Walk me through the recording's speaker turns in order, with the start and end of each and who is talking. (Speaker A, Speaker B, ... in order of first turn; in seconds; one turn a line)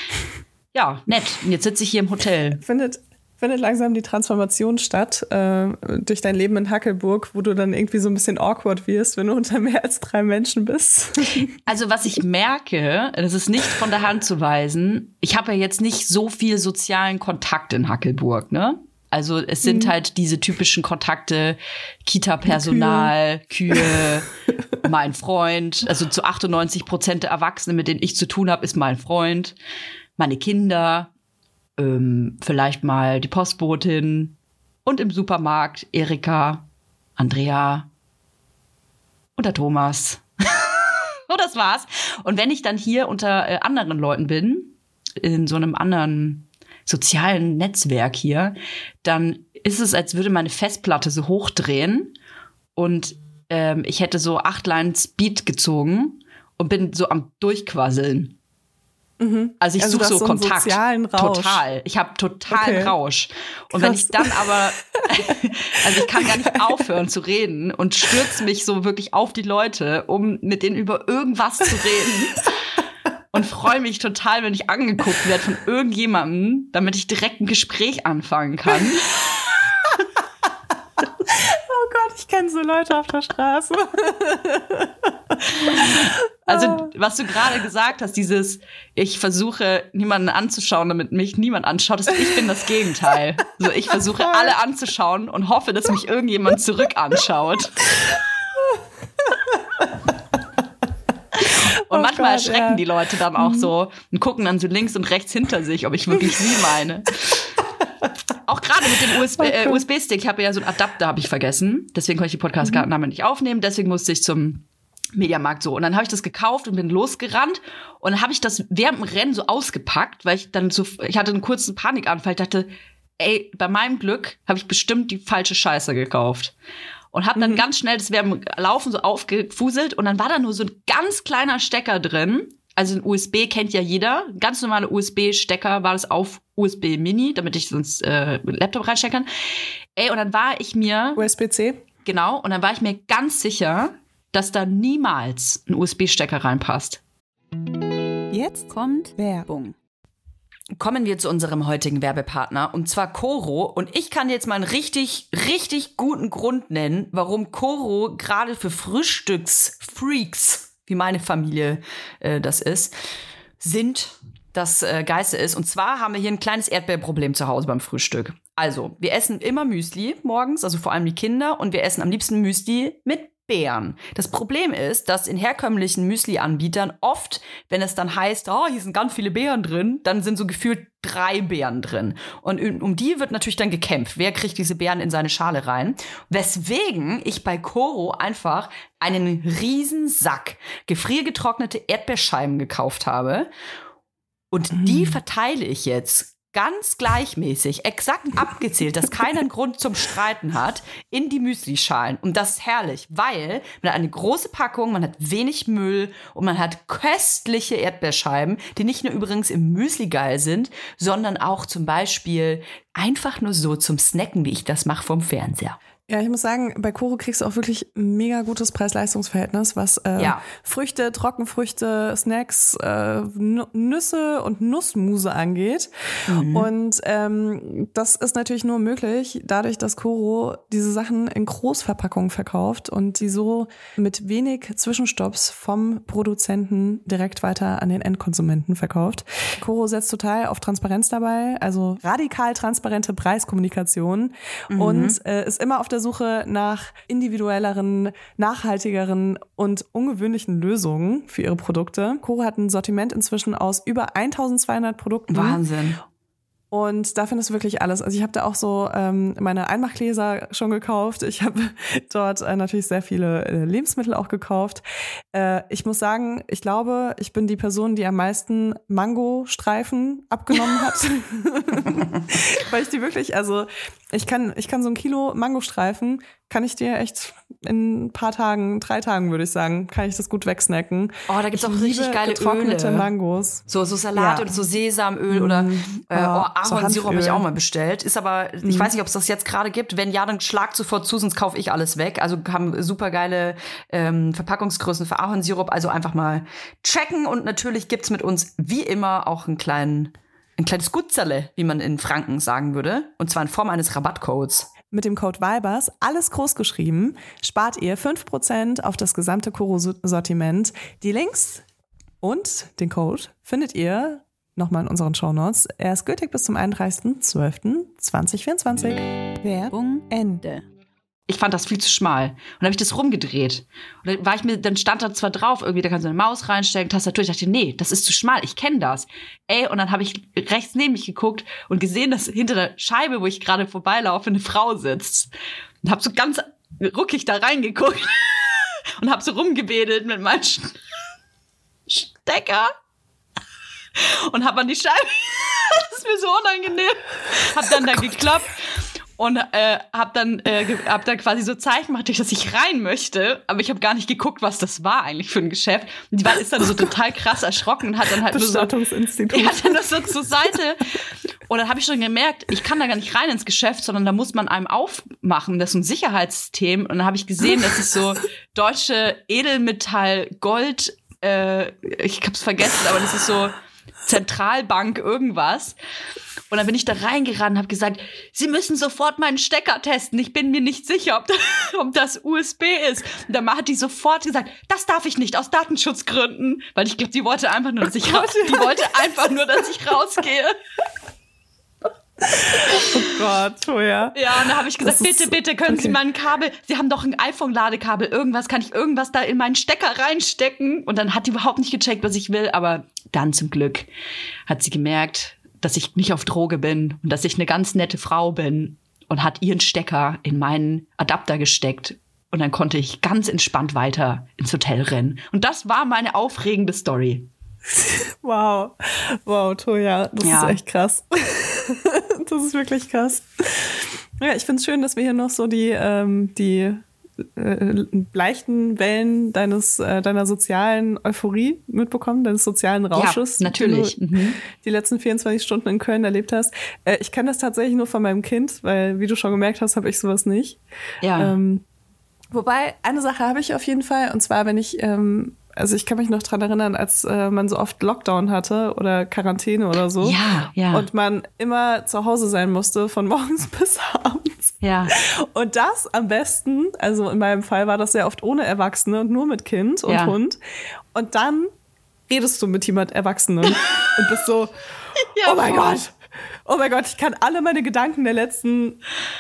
Speaker A: 0.7-2.6
Speaker B: 2.6-11.5
Speaker A: 11.7-29.6
Speaker B: 19.6-19.9
Speaker B: 22.5-23.1
Speaker B: 23.7-24.1
Speaker A: 30.2-31.1
Speaker A: 31.8-36.7
Speaker A: 37.2-37.9
Speaker A: 39.4-40.6
Speaker A: 41.3-52.1
Speaker A: 52.8-58.4
Speaker B: 59.2-61.6
Speaker A: 59.6-72.5
Speaker B: 62.5-62.9
Speaker B: 63.7-64.6
Speaker B: 65.1-65.4
Speaker B: 66.2-66.6
Speaker A: 73.3-79.1
Speaker B: 79.2-80.1
Speaker B: 81.0-86.9
Speaker A: 85.5-97.9
Speaker B: 93.9-94.5
Speaker B: 98.6-100.1
Speaker A: 101.4-107.5
Speaker B: 101.9-102.8
Speaker B: 103.4-103.7
Speaker A: 108.5-126.5
Speaker B: 109.4-109.8
Speaker A: 127.1-139.3
Speaker B: 127.4-127.6
Speaker A: 140.0-141.2
Speaker B: 141.2-141.8
Speaker A: 142.1-147.0
Speaker C: 148.3-149.7
Speaker A: 150.8-162.9
Speaker A: 163.6-193.5
Speaker A: 194.5-215.8
Speaker B: 194.8-195.2
Speaker B: 216.1-255.6
Speaker A: 220.2-220.4
Speaker A: 226.3-226.7
Speaker A: 244.7-245.2
Speaker A: 255.3-256.0
Speaker B: 256.7-284.6
Speaker A: 281.3-283.1
Speaker A: 283.7-304.7
Speaker B: 285.3-287.4
Speaker B: 288.6-288.9
Speaker B: 304.9-311.6
Speaker B: 312.2-320.2
Speaker C: 319.4-320.6
Speaker A: 321.3-335.3
Speaker A: 335.8-340.8
Speaker A: 341.9-342.7
Speaker A: 344.0-358.7
Speaker B: 358.3-359.9
Speaker A: 359.3-361.0
Speaker A: 361.5-373.5
Speaker A: 374.1-375.8
Speaker A: 376.5-390.6
Speaker B: 387.9-389.1
Speaker B: 392.3-394.2
Speaker A: 394.1-403.9
Speaker B: 394.8-396.0
Speaker A: 404.5-417.3
Speaker B: 417.7-440.6
Speaker A: 420.2-420.6
Speaker A: 432.9-434.4
Speaker A: 441.0-441.4
Speaker B: 441.1-441.6
Speaker B: 442.3-450.2
Speaker A: 450.0-450.9
Speaker B: 450.7-460.4
Speaker A: 454.6-454.9
Speaker A: 459.9-460.2
Speaker B: 460.9-461.5
Speaker B: 462.1-464.5
Speaker A: 465.1-465.8
Speaker B: 465.2-468.8